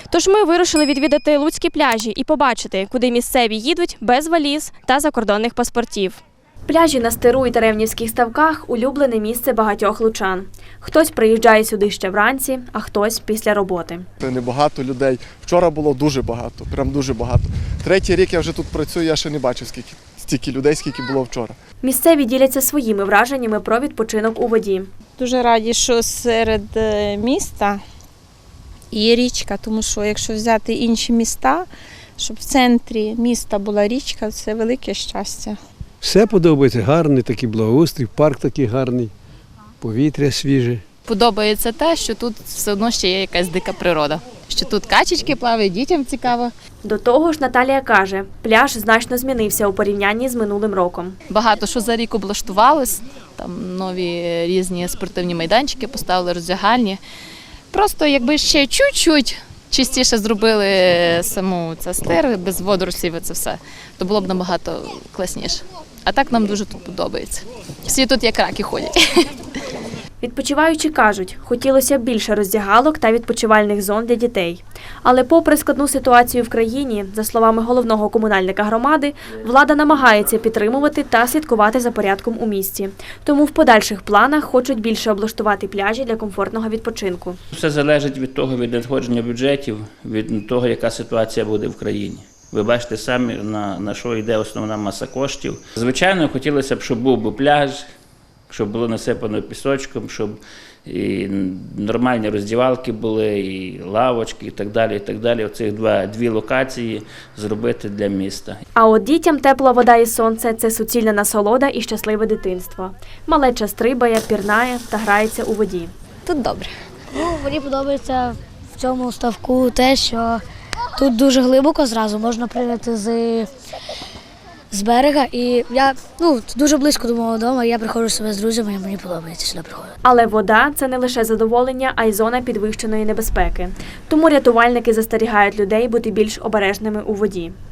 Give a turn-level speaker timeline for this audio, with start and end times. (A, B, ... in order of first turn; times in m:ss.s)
0:04.6-0:06.1 A
0:06.7-0:14.0 A
0:14.2-0:21.6 B
0:21.8-0:24.9 A
0:25.2-0:27.8 C
0:28.9-0:35.6 C
0:36.0-0:39.1 D
0:39.8-0:40.8 D
0:41.1-0:46.5 E
0:46.8-0:51.2 A
0:51.3-0:57.0 E
0:57.7-1:09.3 E
1:10.2-1:27.4 A
1:27.5-1:37.8 F
1:38.5-1:48.6 F
1:48.7-1:55.9 A
1:56.2-1:56.7 E
1:57.1-2:00.4 G
2:01.0-2:03.5 G
2:04.7-2:09.9 G
2:10.0-2:17.5 A